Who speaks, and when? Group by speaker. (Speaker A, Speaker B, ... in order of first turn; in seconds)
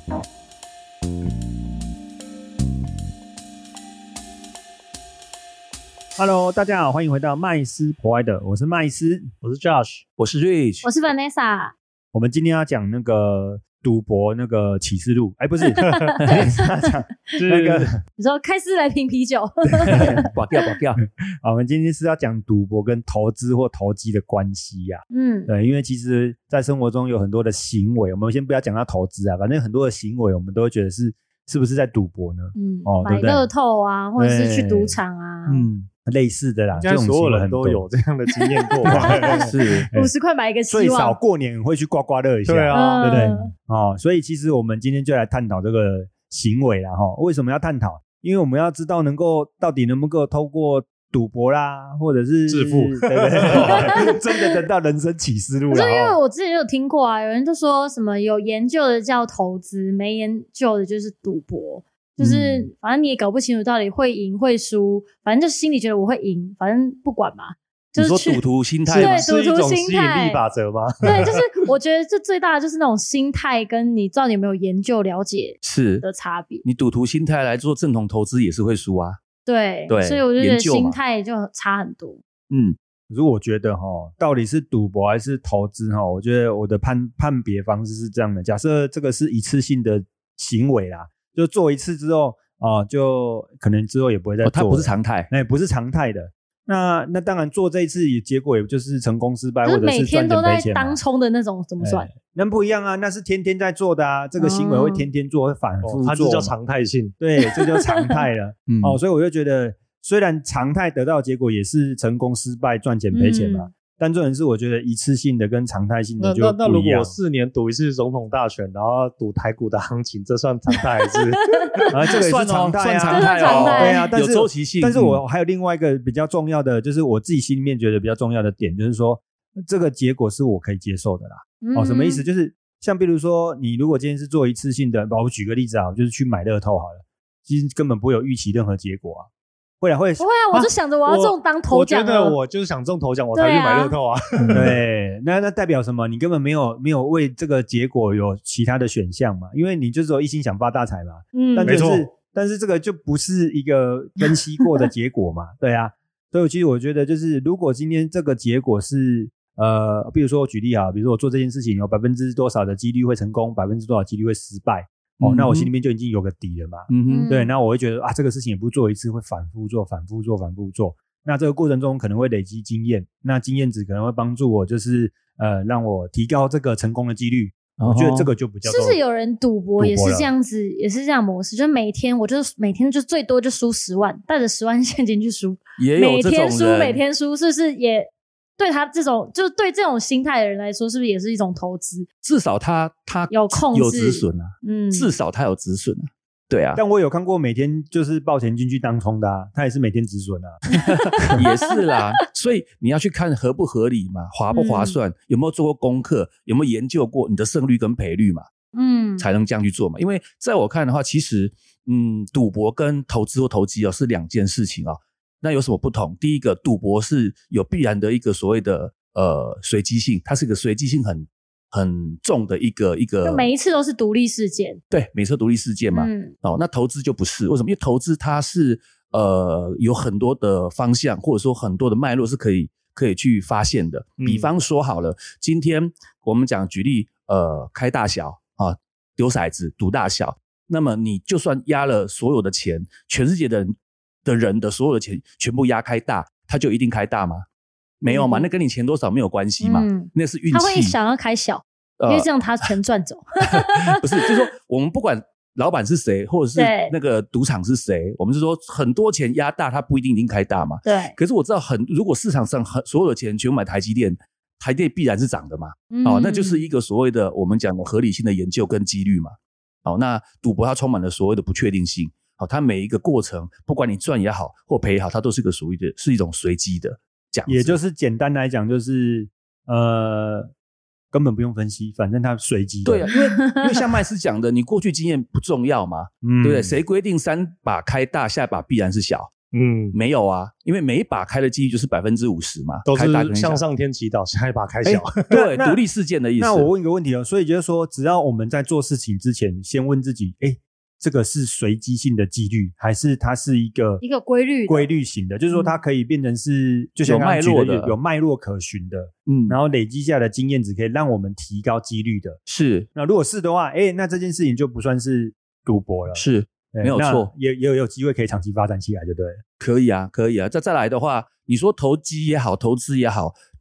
Speaker A: 6.2-9.3, 12.1-18.0, 21.0-33.5, 34.2-35.0, 36.0-37.8, 38.8-40.1, 40.7-56.2, 83.1-101.0, 101.8-106.5, 107.2-117.2, 121.9-139.3, 139.8-140.3, 144.5-179.0, 179.8-180.3, 196.8-201.3, 277.5-280.5, 281.1-283.1, 286.2-286.8, 294.9-295.8, 296.4-304.0, 304.7-312.4, 312.9-319.4
Speaker B: 9.4-10.0, 17.3-17.9, 36.7-39.5, 42.5-43.3, 52.5-53.9, 68.8-71.4, 105.8-107.2, 116.2-121.9, 140.5-144.8, 151.6-152.1, 234.2-234.5, 289.5-289.9, 292.9-295.3
Speaker C: 10.2-10.9, 19.9-21.0, 35.5-35.9, 39.5-39.9, 68.0-69.3, 75.6-76.1, 76.6-79.2, 79.9-81.0, 82.5-82.8, 94.4-95.3, 108.7-109.0, 122.1-125.2, 165.2-165.7, 166.9-167.3, 177.8-178.3, 185.8-187.0, 192.2-196.8, 201.2-208.4, 209.2-223.5, 224.9-247.4, 248.0-250.9, 252.0-252.3, 253.6-277.8, 282.9-289.3, 289.9-293.6, 295.3-296.7, 307.0-308.0, 309.2-309.6, 312.4-312.9, 316.1-317.3, 319.6-323.3
Speaker D: 10.8-11.7, 15.8-16.5, 18.2-20.3, 25.1-25.5, 32.5-35.6, 38.7-41.2, 42.7-43.5, 53.8-54.1, 55.7-70.4, 71.0-76.6, 79.5-82.2, 99.6-102.1, 104.4-105.1, 113.1-113.7, 123.1-124.0, 131.6-132.2, 140.2-142.4, 143.3-144.0, 151.3-151.8, 167.1-167.5, 178.6-192.1, 193.3-195.1, 204.5-205.0, 208.7-209.2, 223.2-224.8, 225.9-226.3, 248.1-248.5, 249.6-254.0, 256.6-256.9, 260.8-261.1, 265.9-266.7, 304.0-304.9, 305.5-305.8